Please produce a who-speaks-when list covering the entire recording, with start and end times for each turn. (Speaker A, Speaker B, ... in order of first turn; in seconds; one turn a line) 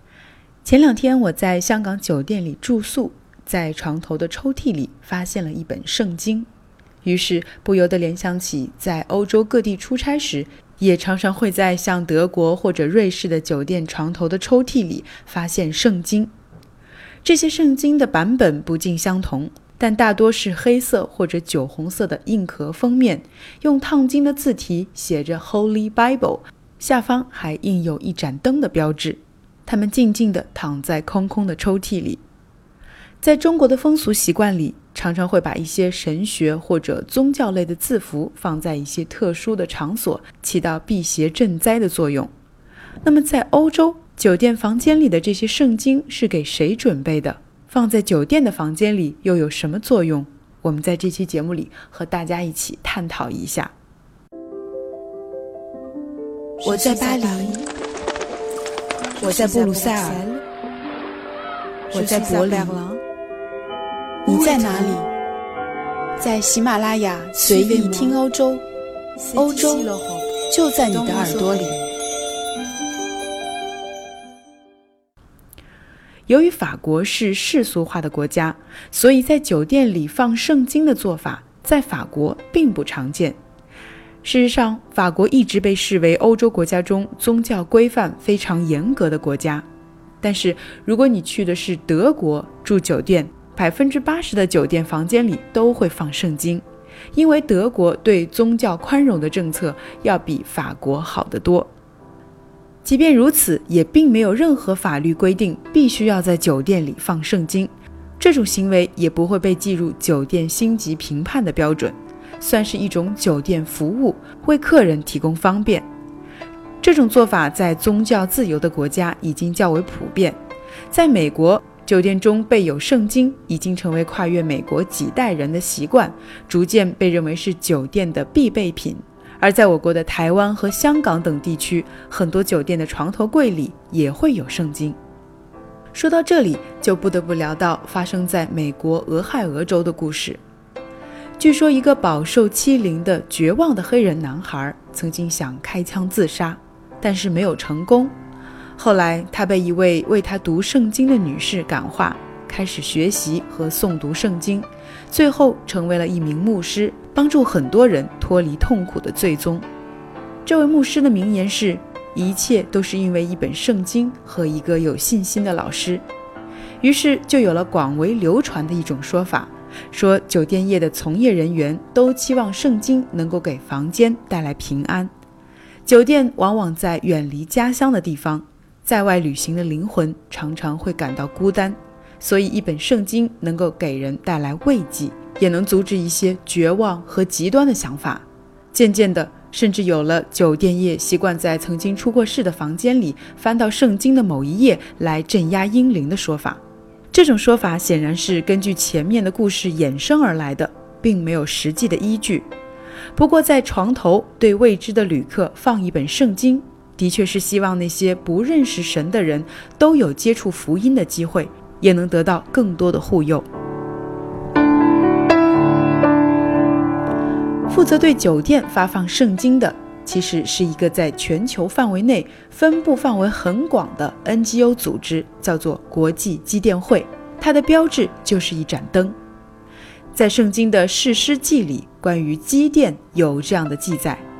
Speaker A: 0.6-6.5
Speaker A: 7.0-16.3
Speaker A: 17.2-32.2
Speaker A: 33.2-42.3
Speaker A: 43.0-53.7
Speaker B: 56.6-57.7
Speaker A: 56.6-57.6
Speaker B: 59.2-60.4
Speaker A: 59.2-60.2
Speaker B: 61.9-63.0
Speaker A: 61.9-62.8
Speaker B: 64.2-65.1
Speaker A: 64.2-65.0
Speaker B: 66.2-68.2
Speaker A: 67.3-68.6
Speaker B: 69.2-71.8
Speaker A: 69.3-69.9
Speaker A: 70.5-71.9
Speaker A: 76.3-83.4
Speaker A: 84.2-89.6
Speaker A: 90.2-96.6
Speaker A: 97.1-101.7
Speaker A: 102.8-115.8
Speaker A: 116.8-120.4
Speaker A: 120.9-135.0
Speaker A: 135.9-140.4
Speaker A: 141.4-148.1
Speaker A: 148.8-159.7
Speaker A: 160.4-166.0
Speaker A: 166.8-175.1
Speaker A: 175.9-196.6
Speaker A: 197.1-202.5
Speaker A: 203.2-213.5
Speaker A: 217.7-229.2
Speaker A: 230.1-234.2